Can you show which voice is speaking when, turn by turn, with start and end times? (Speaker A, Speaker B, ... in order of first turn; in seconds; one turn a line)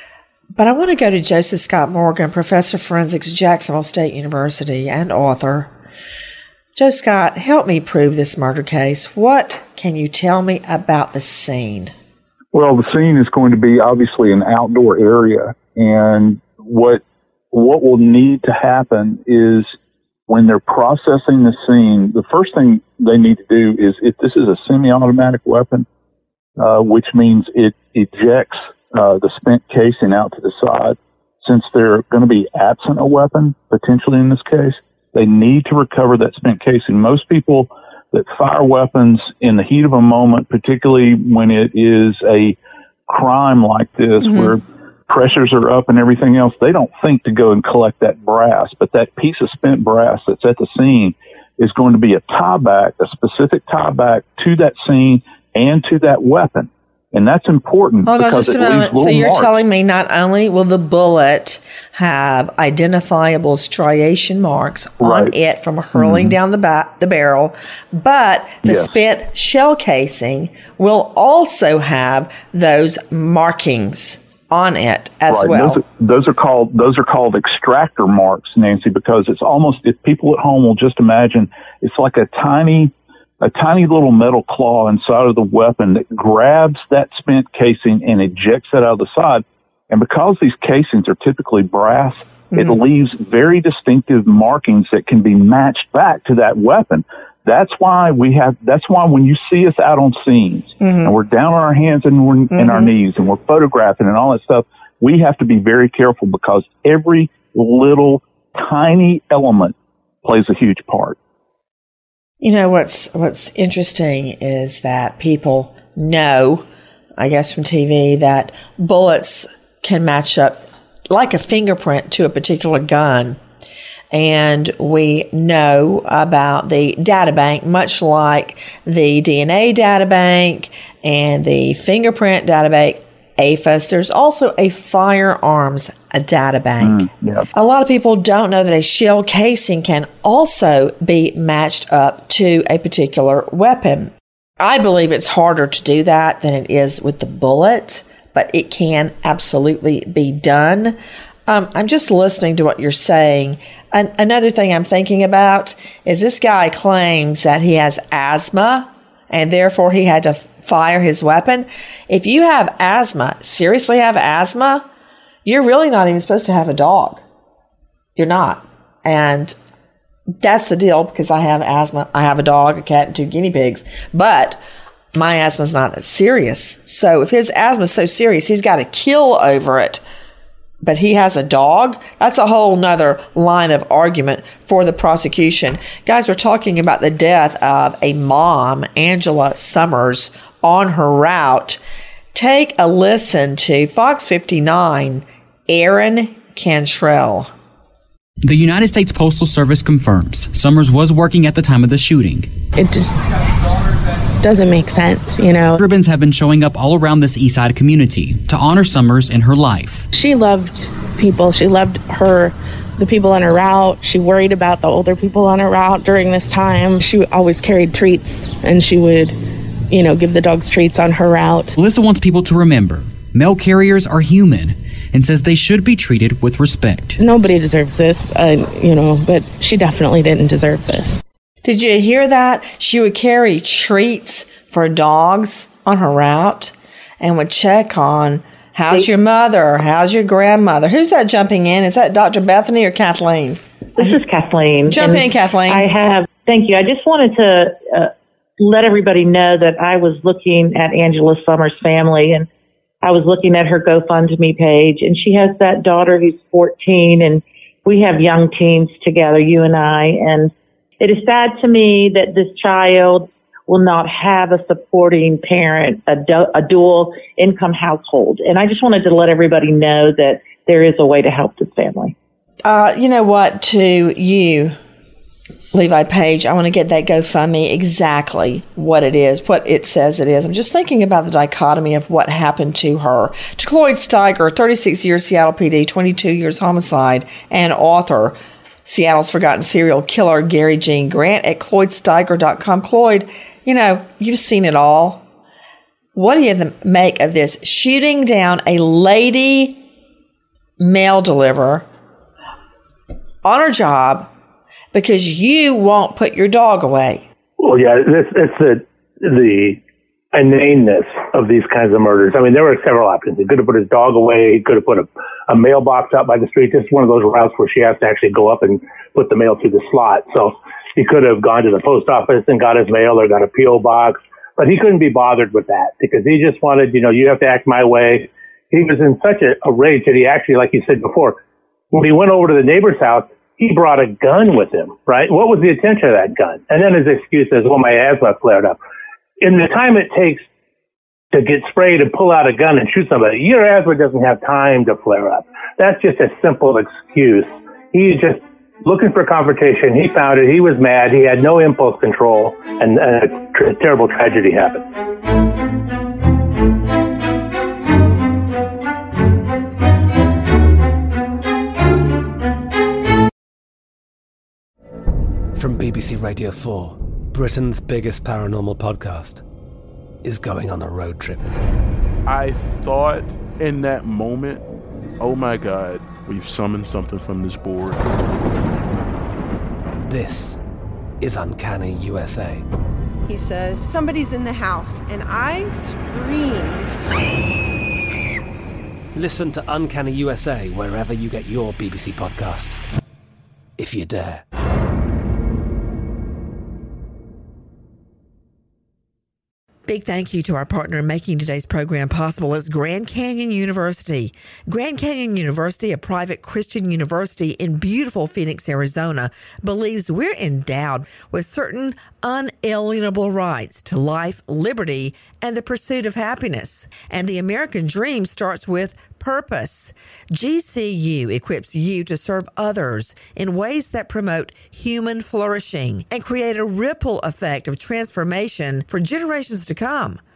Speaker A: 0.6-5.7
Speaker A: 6.8-11.9
Speaker B: 12.5-19.7
Speaker B: 20.3-25.9
Speaker B: 26.6-42.6
Speaker B: 43.1-59.5
Speaker A: 44.2-44.5
Speaker A: 58.1-75.8
Speaker B: 65.0-65.3
Speaker B: 65.9-66.3
Speaker B: 68.6-68.9
Speaker B: 75.3-111.2
Speaker A: 100.8-101.1
Speaker A: 102.5-102.9
Speaker A: 112.4-116.6
Speaker A: 117.2-123.4
Speaker A: 124.1-150.9
Speaker B: 136.8-137.5
Speaker A: 151.5-164.8
Speaker A: 165.4-167.2
Speaker A: 168.2-169.5
Speaker A: 170.4-174.6
Speaker A: 175.1-180.0
Speaker A: 180.8-191.8
Speaker A: 192.3-197.5
Speaker C: 198.4-202.5
Speaker D: 202.7-203.2
Speaker D: 204.4-205.8
Speaker C: 205.8-210.1
Speaker D: 210.1-219.4
Speaker D: 219.9-221.7
Speaker C: 221.8-227.2
Speaker D: 227.1-231.2
Speaker A: 231.6-244.2
Speaker E: 244.0-252.5
Speaker A: 244.9-245.9
Speaker E: 253.0-272.1
Speaker A: 272.6-274.7
Speaker A: 275.7-295.2
Speaker A: 296.1-299.8
Speaker A: 300.8-301.8
Speaker A: 303.4-304.3
Speaker A: 304.9-307.2
Speaker F: 307.6-309.8
Speaker F: 310.3-331.4
Speaker F: 331.9-338.8
Speaker F: 339.4-340.5
Speaker F: 341.3-354.9
Speaker G: 365.5-369.4
Speaker G: 370.2-371.4
Speaker H: 372.3-374.6
Speaker H: 375.2-378.1
Speaker G: 380.1-380.6
Speaker G: 381.2-382.6
Speaker I: 383.3-386.9
Speaker G: 389.1-392.9
Speaker G: 393.8-394.4
Speaker J: 399.9-430.2